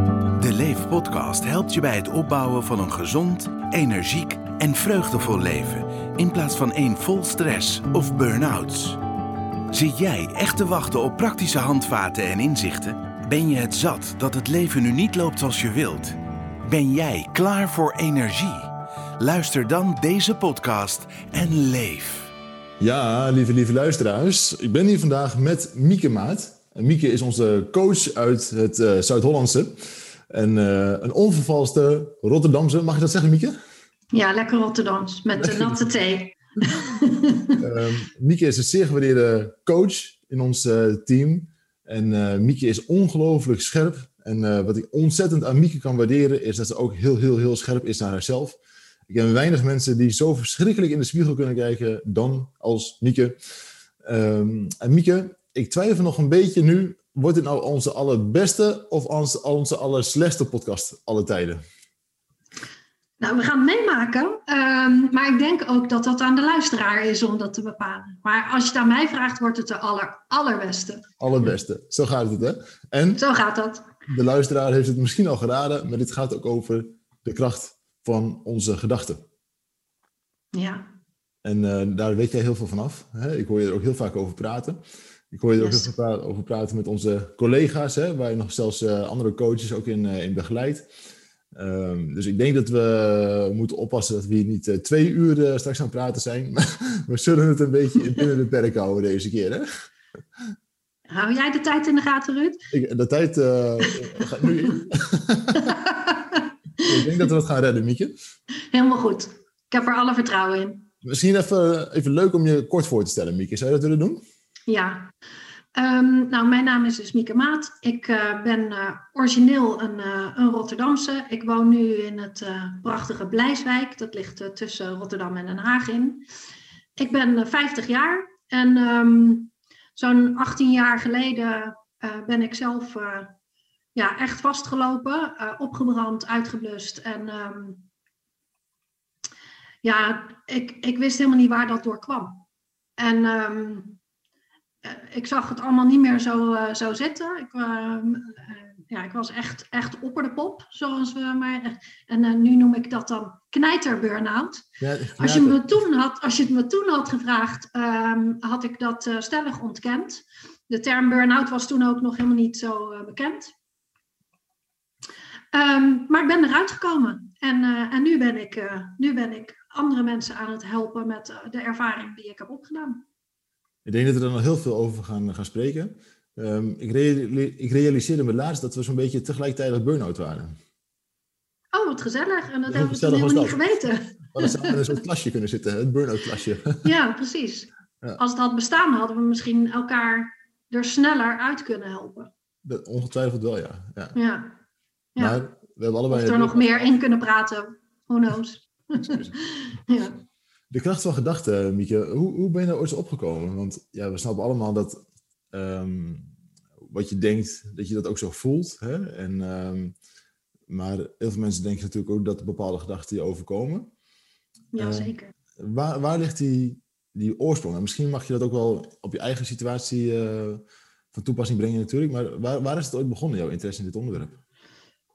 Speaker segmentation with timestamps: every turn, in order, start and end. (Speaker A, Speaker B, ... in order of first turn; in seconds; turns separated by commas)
Speaker A: 0.4-9.0, Speaker A: 9.7-22.3, Speaker B: 22.8-33.5, Speaker C: 34.1-37.6, Speaker B: 35.4-35.9, Speaker B: 37.6-53.4, Speaker B: 54.0-61.6, Speaker C: 63.2-71.1, Speaker B: 71.2-73.2, Speaker C: 73.2-73.9, Speaker B: 74.1-79.2, Speaker C: 80.5-80.9, Speaker B: 81.4-84.8, Speaker B: 85.3-90.9, Speaker C: 85.6-85.9, Speaker B: 91.5-99.7, Speaker C: 101.1-102.6, Speaker B: 102.7-105.8, Speaker C: 105.5-106.9, Speaker B: 106.8-108.1, Speaker C: 108.7-110.9, Speaker B: 111.0-114.2, Speaker C: 114.7-115.1, Speaker C: 115.8-126.2, Speaker C: 127.0-133.3, Speaker C: 133.9-137.9, Speaker C: 139.8-142.4, Speaker C: 143.0-144.0, Speaker C: 144.8-154.7, Speaker B: 154.8-155.7, Speaker C: 155.2-163.5, Speaker C: 165.5-173.0, Speaker B: 173.8-180.6, Speaker C: 181.7-184.9, Speaker B: 182.7-183.6, Speaker B: 184.3-186.8, Speaker C: 186.8-192.3, Speaker B: 192.6-194.2, Speaker C: 194.1-194.6, Speaker B: 195.2-197.0, Speaker C: 196.1-200.2, Speaker B: 199.0-199.3, Speaker B: 200.7-206.3, Speaker B: 206.8-209.9, Speaker B: 210.7-213.9, Speaker C: 214.7-215.3, Speaker B: 214.8-220.6, Speaker B: 221.1-224.4